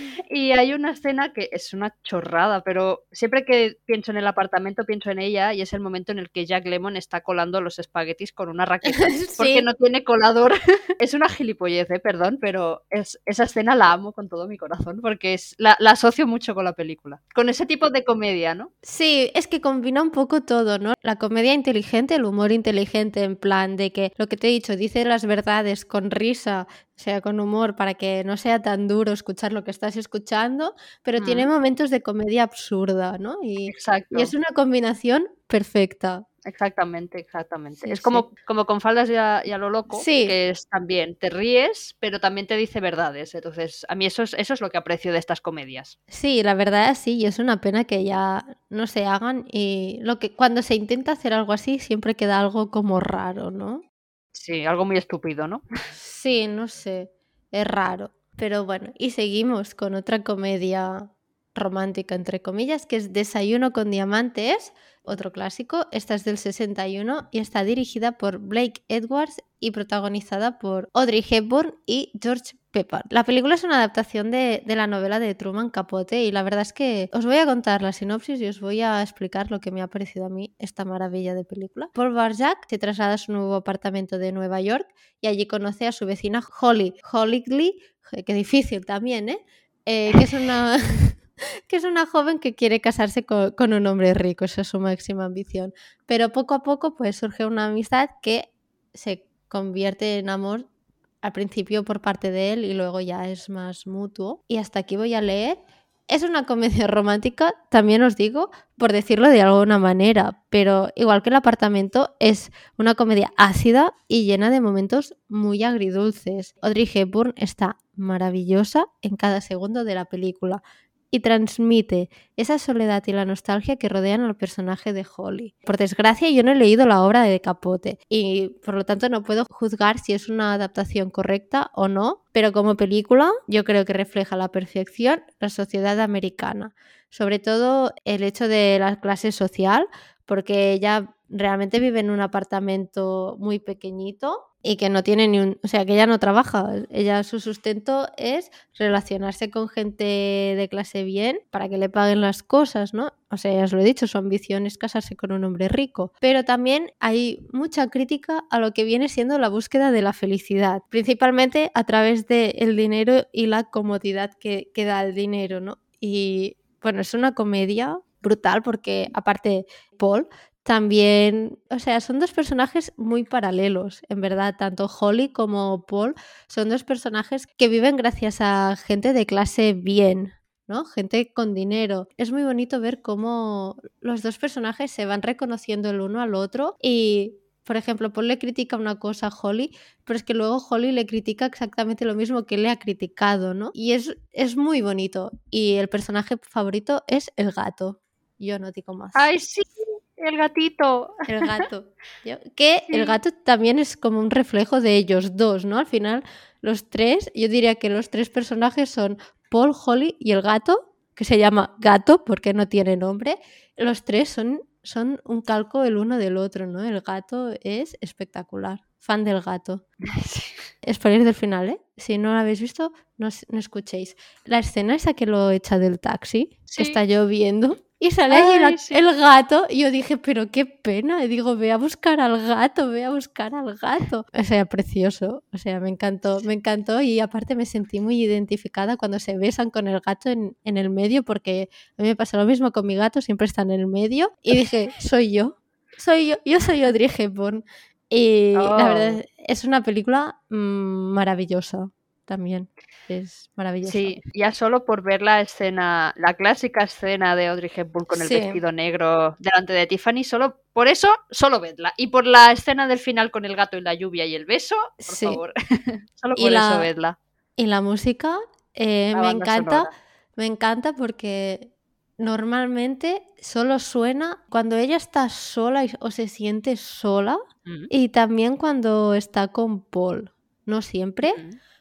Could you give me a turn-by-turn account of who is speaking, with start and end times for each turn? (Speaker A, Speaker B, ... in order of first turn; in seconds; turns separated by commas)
Speaker A: 0.3-18.7, Speaker B: 8.8-9.7, Speaker B: 18.8-36.2, Speaker A: 31.2-31.5, Speaker A: 33.7-34.3, Speaker A: 36.4-46.0, Speaker B: 37.8-38.3, Speaker B: 39.9-40.4, Speaker B: 46.1-53.8, Speaker A: 54.3-55.6, Speaker B: 56.0-100.7, Speaker B: 101.2-120.6, Speaker B: 121.1-199.3, Speaker A: 199.2-201.6, Speaker B: 201.3-219.8, Speaker A: 202.9-203.2, Speaker A: 220.0-220.6, Speaker B: 220.8-254.2, Speaker A: 226.7-227.0, Speaker A: 228.3-229.0, Speaker A: 248.6-249.2, Speaker A: 253.8-267.2, Speaker B: 258.1-258.6, Speaker B: 265.1-265.4, Speaker B: 266.4-266.9, Speaker B: 267.6-277.4, Speaker A: 269.1-269.9, Speaker B: 277.9-281.4, Speaker A: 281.2-281.6